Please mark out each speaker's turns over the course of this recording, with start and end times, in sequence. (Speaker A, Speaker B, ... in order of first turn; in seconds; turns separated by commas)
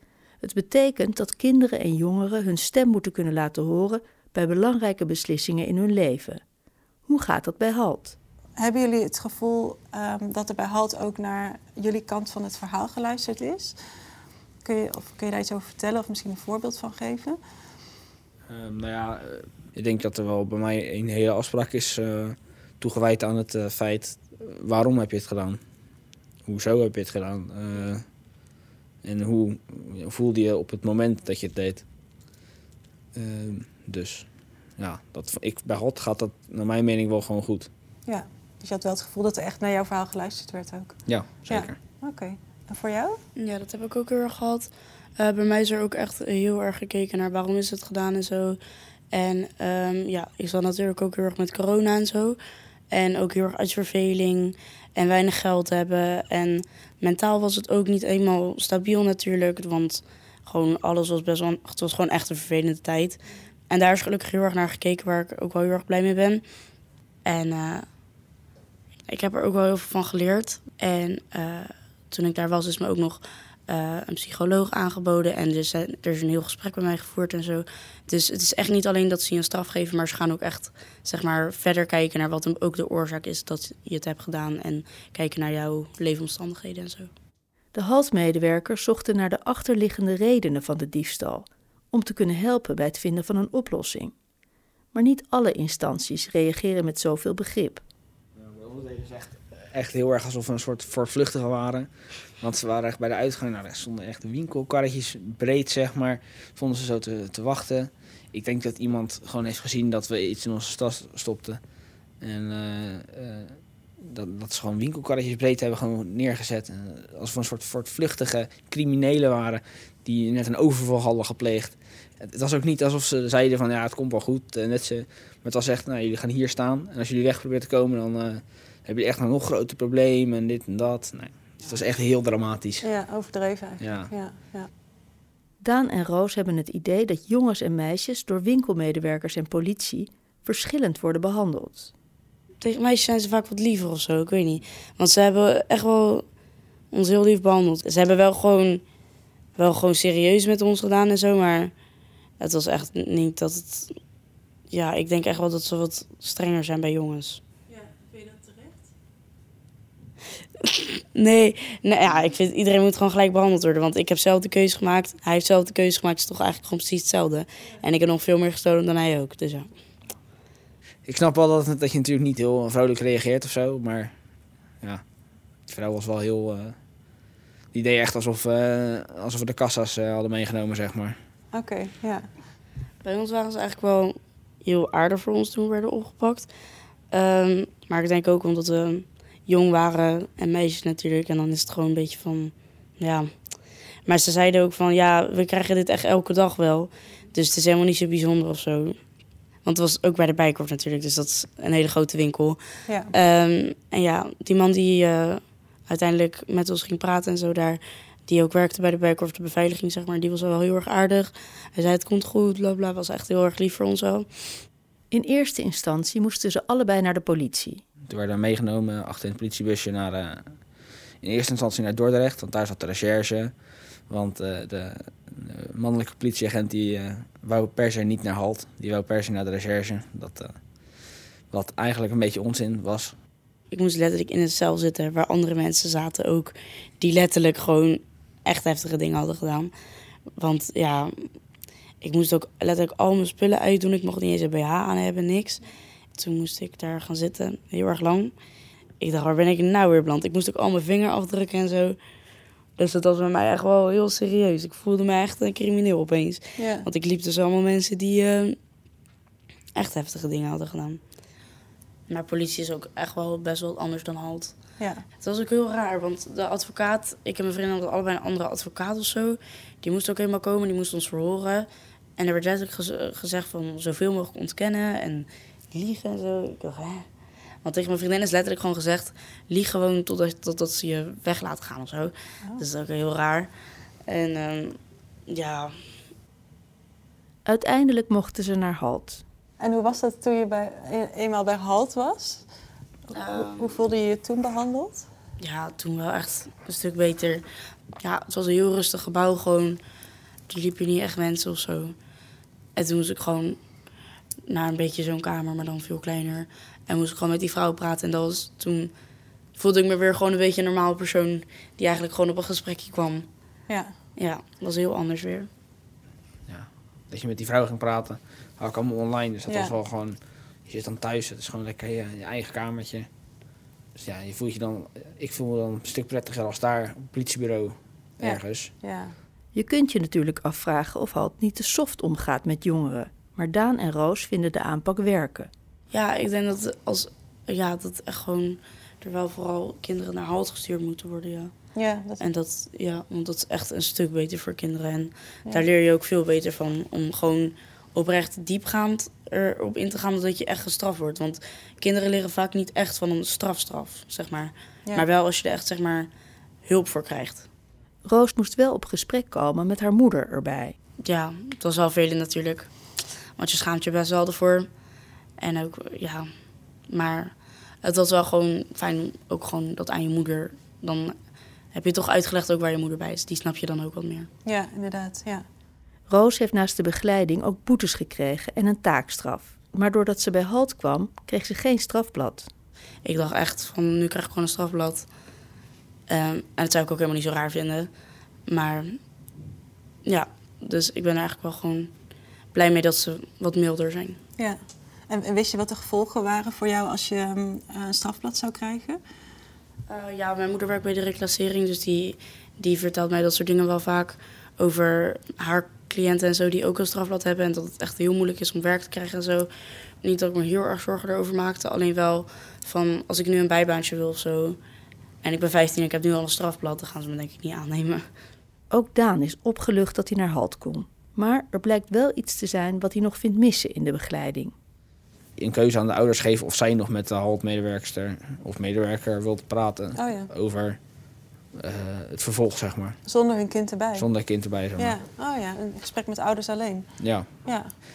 Speaker A: 0.4-6.4, Speaker A: 7.1-8.2, Speaker B: 8.6-13.8, Speaker B: 14.6-17.4, Speaker C: 18.5-25.6, Speaker C: 26.4-28.0, Speaker C: 29.0-31.8, Speaker C: 33.1-37.7, Speaker B: 38.0-43.2, Speaker C: 41.0-41.8, Speaker D: 43.4-48.6, Speaker D: 49.1-52.4, Speaker D: 52.9-66.4, Speaker D: 67.2-67.9, Speaker D: 69.1-87.1, Speaker A: 87.7-94.1, Speaker A: 94.9-97.8, Speaker C: 98.3-111.6, Speaker C: 112.2-132.8, Speaker B: 132.8-134.7, Speaker C: 133.8-134.1, Speaker A: 135.6-141.9, Speaker D: 142.6-146.2, Speaker D: 146.9-148.8, Speaker D: 149.6-151.7, Speaker D: 152.4-153.9, Speaker D: 154.7-157.4, Speaker B: 157.7-158.8, Speaker D: 160.6-169.7, Speaker C: 171.0-174.1, Speaker C: 175.7-176.8, Speaker C: 177.7-181.2, Speaker B: 181.5-182.2, Speaker D: 183.0-186.5, Speaker D: 187.1-193.3, Speaker D: 194.0-199.0, Speaker D: 199.6-214.3, Speaker B: 202.9-203.1, Speaker A: 215.1-217.8, Speaker C: 218.1-220.5, Speaker C: 221.2-223.5, Speaker C: 224.1-230.6, Speaker C: 231.5-233.1, Speaker D: 233.7-239.7, Speaker D: 240.4-241.3, Speaker D: 242.0-245.6, Speaker D: 246.2-248.3, Speaker D: 249.0-252.0, Speaker D: 252.8-258.6, Speaker B: 256.6-256.9, Speaker D: 259.7-261.0, Speaker D: 262.1-264.5, Speaker B: 264.8-265.0, Speaker D: 265.2-277.1, Speaker D: 277.6-283.5, Speaker D: 284.1-285.7, Speaker A: 287.4-289.2, Speaker B: 289.6-292.4, Speaker B: 293.1-295.1, Speaker D: 293.1-293.7, Speaker D: 295.4-297.4, Speaker D: 298.0-299.8, Speaker D: 300.5-301.9, Speaker D: 302.8-303.6, Speaker D: 304.4-308.9, Speaker D: 309.5-313.3, Speaker D: 314.1-315.5, Speaker C: 316.5-323.1, Speaker B: 319.5-319.7, Speaker C: 323.9-328.7, Speaker B: 328.2-329.1, Speaker A: 329.5-335.5, Speaker D: 335.9-341.5, Speaker B: 341.7-342.3, Speaker D: 342.2-356.1, Speaker D: 356.6-357.5, Speaker A: 358.0-360.8, Speaker D: 361.0-362.7, Speaker D: 363.4-364.7, Speaker D: 365.4-366.3, Speaker D: 366.9-371.1, Speaker D: 371.7-374.3, Speaker B: 374.4-375.4, Speaker A: 376.1-382.5, Speaker D: 383.0-385.1, Speaker D: 386.1-387.9, Speaker D: 388.5-389.0, Speaker D: 390.0-391.9, Speaker D: 392.5-394.2, Speaker B: 395.1-399.0, Speaker D: 399.9-409.5, Speaker D: 410.0-414.6, Speaker D: 415.2-418.1, Speaker A: 418.7-424.5, Speaker C: 425.4-430.8, Speaker B: 429.9-430.3, Speaker C: 431.5-432.9, Speaker B: 433.0-434.1, Speaker C: 434.0-434.9, Speaker B: 434.8-437.7, Speaker C: 437.0-437.3